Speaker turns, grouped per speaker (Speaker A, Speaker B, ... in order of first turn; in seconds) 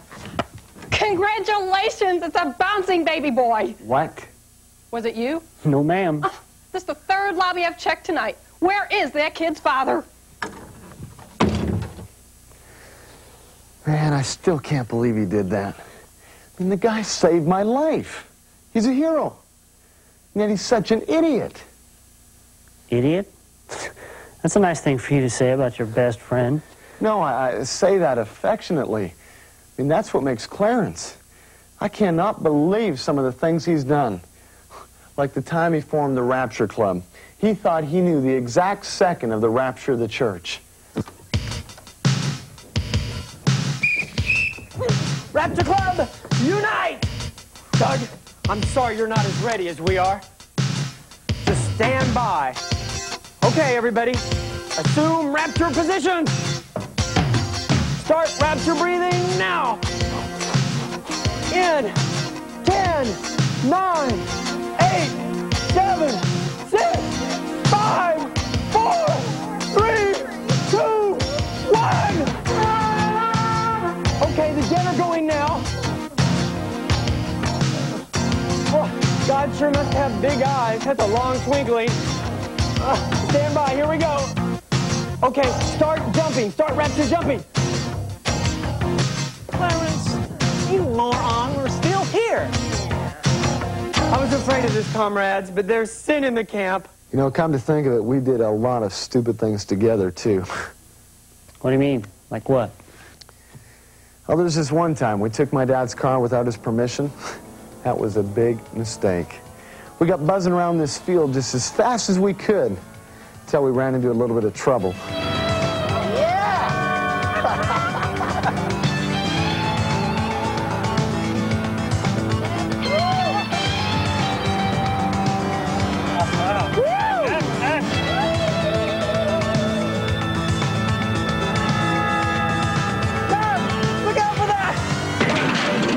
Speaker A: 0.9-3.8, 4.9-5.4, 6.2-10.0
Speaker B: 3.9-4.2, 13.8-15.8, 16.6-19.4, 20.3-21.6, 27.0-29.1, 29.8-31.2, 31.8-34.2, 35.1-40.6, 97.1-100.5, 104.3-107.1, 107.8-109.4, 110.0-112.8, 113.5-115.0
Speaker C: 5.6-6.2, 22.9-26.6, 101.6-102.7
Speaker D: 45.3-47.1, 47.8-50.2, 51.4-52.6, 53.4-54.2, 54.7-56.3, 58.0-59.8, 61.5-62.0, 62.6-65.2, 65.7-67.1, 67.6-72.5, 74.0-75.7, 78.7-82.0, 82.8-84.3, 85.2-87.4, 89.5-92.5, 94.1-96.9, 126.7-127.5, 133.3-134.8